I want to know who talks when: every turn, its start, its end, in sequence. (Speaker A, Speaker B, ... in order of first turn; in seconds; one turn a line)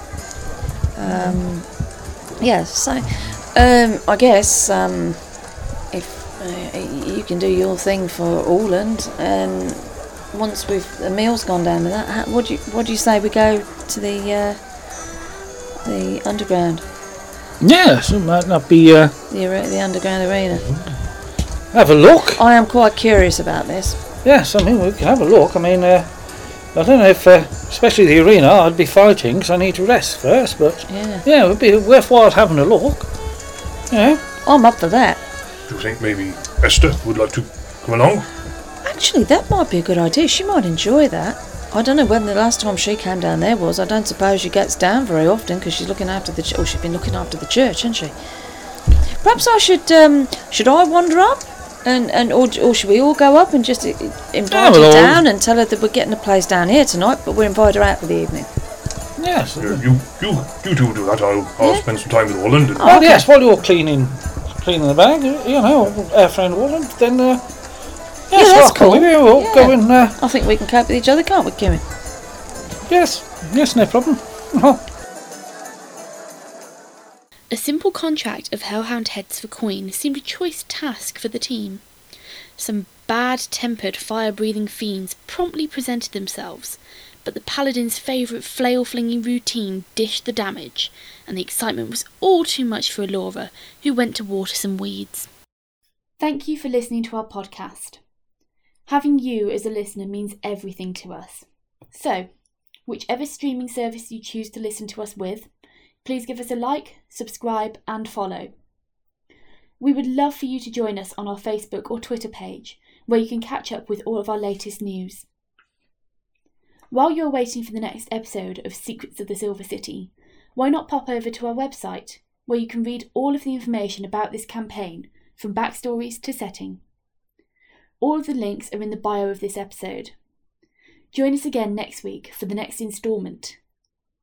Speaker A: 1.0-14.6
Speaker A: 15.8-16.8
Speaker B: 17.6-19.1
Speaker A: 19.3-20.7
Speaker B: 21.7-22.4
Speaker A: 22.4-24.0
Speaker B: 24.2-26.2
Speaker B: 26.7-33.1
Speaker A: 30.9-31.2
Speaker B: 33.9-34.2
Speaker A: 34.4-35.2
Speaker C: 35.7-38.3
Speaker A: 38.8-48.1
Speaker A: 49.1-58.5
Speaker B: 54.5-55.2
Speaker B: 59.2-59.8
Speaker C: 59.6-62.9
Speaker A: 62.8-63.3
Speaker B: 62.8-67.5
Speaker B: 68.3-70.2
Speaker A: 68.3-71.8
Speaker B: 72.9-74.8
Speaker D: 77.5-81.8
Speaker D: 82.6-95.3
Speaker D: 96.2-98.0
Speaker D: 98.9-102.3
Speaker D: 102.9-105.5
Speaker D: 106.0-108.5
Speaker D: 109.8-115.3
Speaker D: 116.9-126.8
Speaker D: 128.0-130.2
Speaker D: 131.1-133.6